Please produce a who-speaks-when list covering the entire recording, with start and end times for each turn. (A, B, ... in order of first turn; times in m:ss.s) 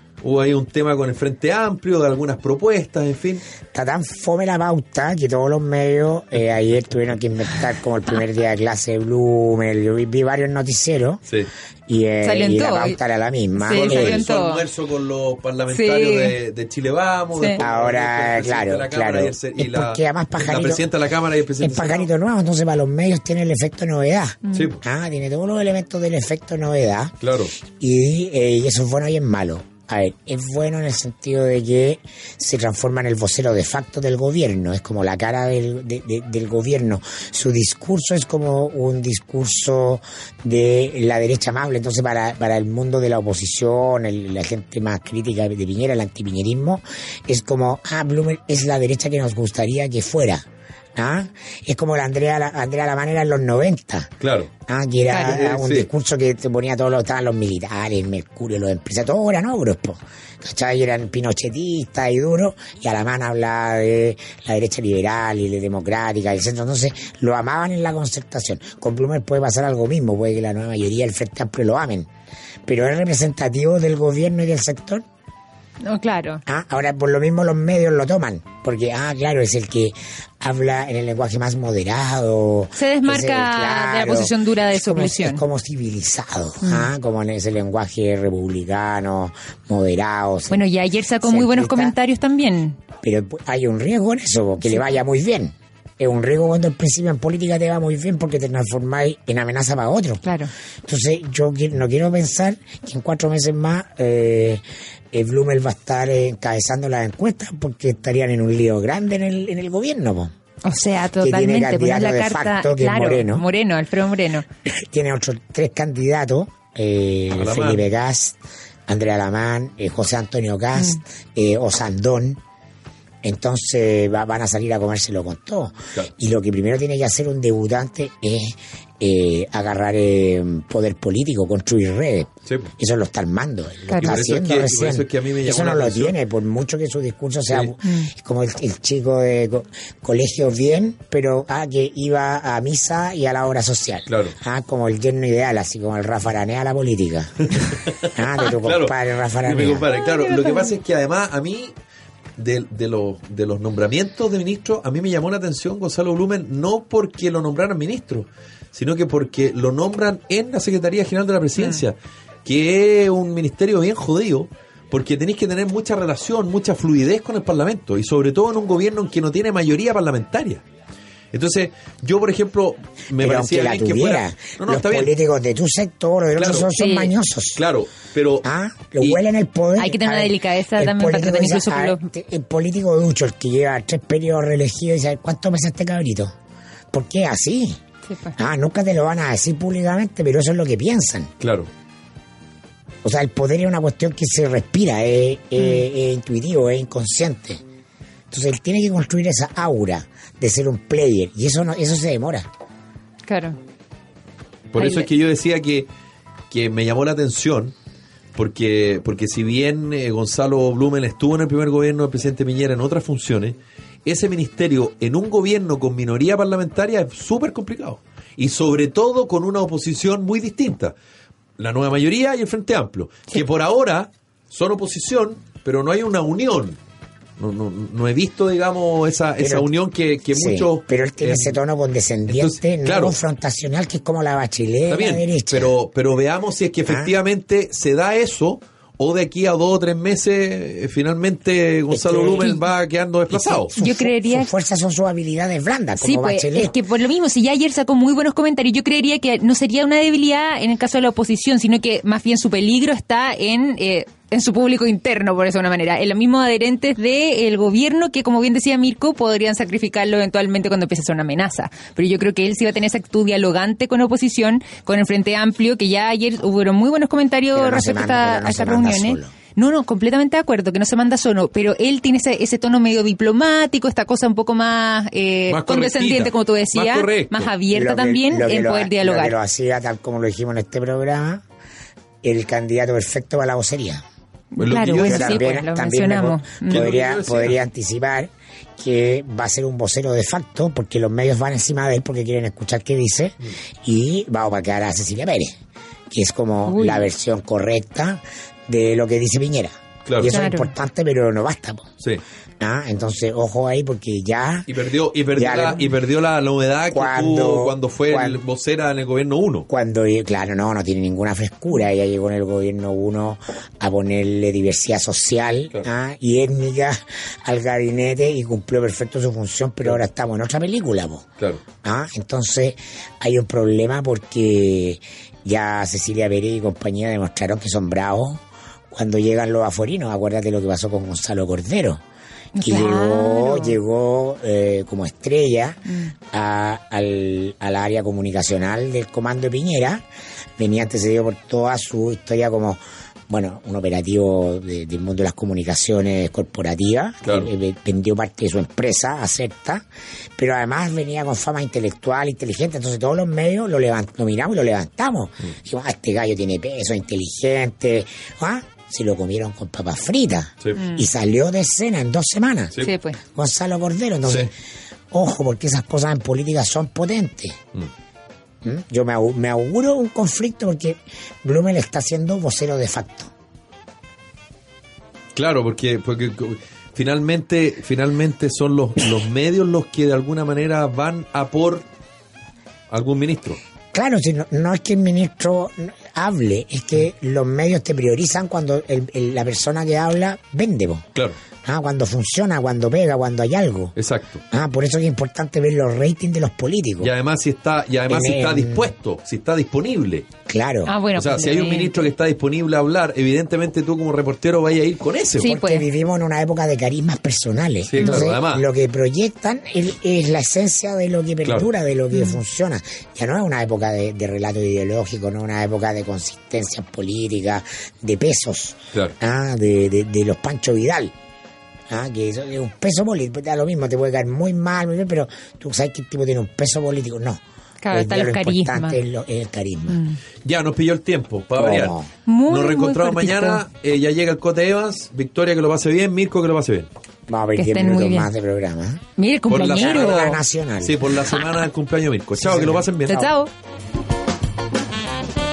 0:00.2-0:03.4 A
0:03.7-0:11.2 B
0:11.9-0:14.2 B
0:12.2-0:13.0 C
0:13.6-0:14.7 C
0:13.7-0:22.1 A
0:15.7-0:16.4 C
0:17.6-0:20.9 B
0:21.6-0:27.2 B
0:24.4-0:24.7 C
0:24.5-0:24.8 A
0:27.2-0:27.5 A
0:27.7-0:54.1 B
0:54.2-0:54.5 A
0:54.7-1:12.1 B
0:55.2-0:55.9 A
1:12.7-1:15.0 B
1:15.8-1:16.4 C
1:16.5-1:30.6 B
1:22.8-1:25.4 C
1:26.6-1:26.9 C
1:30.5-1:32.8 C
1:31.2-1:32.0 B
1:33.0-1:40.2 B
1:40.2-1:40.5 C
1:40.8-1:50.3 B
1:50.6-1:54.4 C
1:51.2-1:53.4 B
1:54.7-2:02.4 B
1:57.4-1:57.8 A
2:03.2-2:27.5 B
2:13.9-2:14.2 C
2:14.0-2:16.2 A
2:17.8-2:18.1 C
2:24.1-2:24.4 A
2:27.5-2:31.7 A
2:28.1-2:29.9 B
2:29.9-2:30.8 C
2:32.4-2:50.6 A
2:51.3-2:55.1 A
2:53.2-2:57.6 B
2:56.4-2:56.7 A
2:56.8-2:57.1 C
2:57.6-2:58.4 A
2:58.4-3:06.3 B
2:59.8-3:02.1 C
3:06.9-3:07.8 B
3:08.1-3:08.4 C
3:08.4-3:11.3 B
3:11.4-3:11.7 A
3:13.0-3:17.6 B
3:18.3-3:22.5 B
3:23.2-3:23.6 C
3:24.7-3:25.9 A
3:24.8-3:25.1 C
3:26.5-3:27.7 A
3:28.4-3:41.0 A
3:41.6-3:46.8 A
3:47.4-3:51.6 A
3:49.4-3:49.7 B
3:50.3-3:55.7 B
3:52.3-3:53.2 A
3:54.9-4:03.7 A
3:56.9-3:57.1 B
4:01.9-4:02.5 B
4:03.3-4:06.8 B
4:03.8-4:04.5 C
4:06.0-4:39.4 C
4:27.5-4:29.3 B
4:35.5-4:37.5 A
4:37.7-4:41.4 B
4:42.2-4:44.0 B
4:44.5-4:46.9 C
4:44.6-4:45.4 A
4:44.8-4:55.6 B
4:46.7-4:47.6 A
4:56.1-5:01.9 B
4:56.7-4:57.1 C
5:00.1-5:00.4 A
5:00.3-5:00.7 C
5:02.6-5:04.7 B
5:04.7-5:09.7 A
5:05.4-5:05.8 B
5:06.9-5:08.4 B
5:09.7-5:21.3 B
5:21.8-5:32.0 B
5:32.6-5:33.8 C
5:32.6-5:40.0 B
5:35.9-5:36.1 C
5:40.6-5:49.8 B
5:47.2-5:47.5 A
5:50.4-6:02.8 B
6:00.8-6:01.0 C
6:02.8-6:03.2 C
6:03.3-6:04.5 B
6:04.2-6:04.5 A
6:05.1-6:07.6 B
6:08.6-6:13.3 B
6:15.4-6:21.8 A
6:22.9-6:23.6 A
6:23.9-6:31.0 B
6:31.6-6:34.0 B
6:34.0-6:34.4 A
6:34.5-6:37.1 B
6:37.0-6:40.3 A
6:38.1-6:38.9 B
6:40.5-6:41.0 B
6:40.9-6:42.1 C
6:41.2-6:45.5 A
6:45.4-6:45.9 C
6:45.4-7:01.1 B
6:47.9-6:48.7 A
6:48.0-6:48.3 C
7:01.9-7:10.0 B
7:07.8-7:09.0 C
7:09.9-7:10.2 C
7:10.4-7:16.9 A
7:11.6-7:12.1 B
7:12.3-7:13.6 C
7:17.3-7:19.0 B
7:17.6-7:18.3 C
7:19.2-7:20.4 C
7:19.5-7:23.3 A
7:19.6-7:21.0 B
7:22.4-7:22.9 B
7:23.1-7:23.5 C